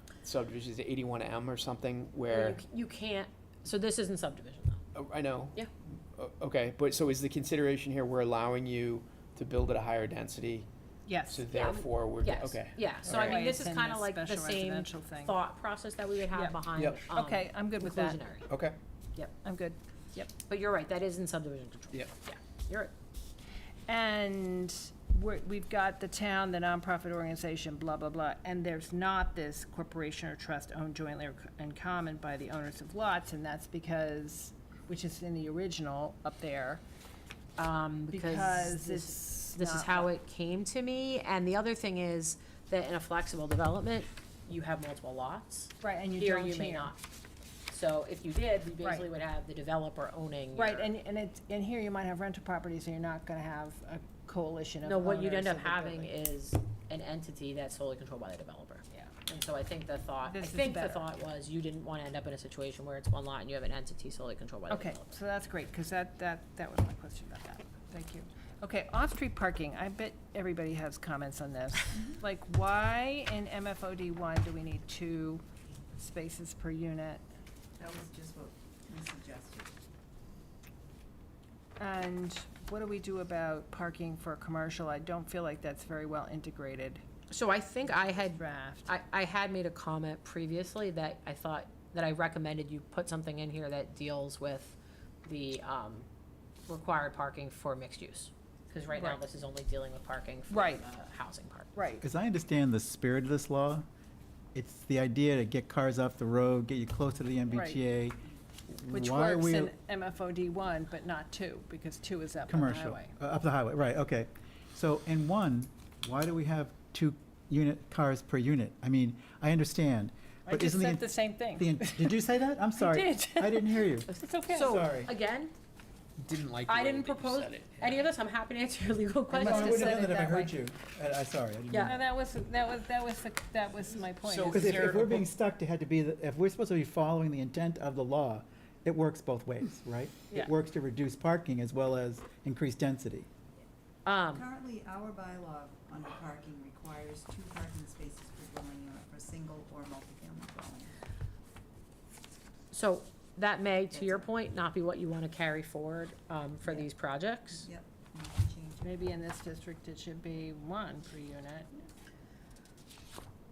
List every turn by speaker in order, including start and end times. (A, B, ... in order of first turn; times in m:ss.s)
0:00.2-0:02.6 A
0:02.3-0:04.8 B
0:05.0-0:05.5 A
0:06.2-0:10.7 A
0:11.1-0:11.4 C
0:11.3-0:13.4 A
0:11.5-0:18.5 B
0:13.1-0:15.4 C
0:16.3-0:18.2 C
0:16.8-0:17.0 A
0:18.5-0:18.8 A
0:19.4-0:20.3 C
0:20.4-0:22.9 B
0:23.9-0:36.8 C
0:37.6-0:47.0 B
0:38.1-0:40.1 C
0:45.8-0:46.9 C
0:47.7-0:50.9 B
0:48.8-0:49.1 C
0:50.6-0:56.1 C
0:54.8-1:05.2 B
1:00.2-1:01.1 C
1:04.7-1:15.4 C
1:16.0-1:17.2 C
1:17.8-1:19.8 D
1:21.8-1:27.0 C
1:27.3-1:36.1 B
1:27.9-1:28.9 C
1:36.7-1:41.7 B
1:38.9-1:39.2 C
1:40.5-1:40.8 C
1:41.8-1:42.0 C
1:42.0-1:43.9 E
1:44.6-1:49.7 E
1:47.5-1:47.8 C
1:48.9-1:53.1 C
1:52.5-2:05.1 E
2:00.5-2:02.2 C
2:02.8-2:04.8 C
2:04.5-2:05.5 B
2:06.2-2:08.1 A
2:06.7-2:10.2 B
2:09.3-2:10.6 C
2:09.3-2:12.0 E
2:11.7-2:12.0 B
2:11.8-2:15.0 C
2:14.2-2:15.3 A
2:14.5-2:23.3 E
2:24.1-2:24.5 B
2:24.3-2:30.9 D
2:32.7-2:37.7 B
2:33.9-2:34.3 D
2:37.6-2:39.0 D
2:38.8-2:41.7 C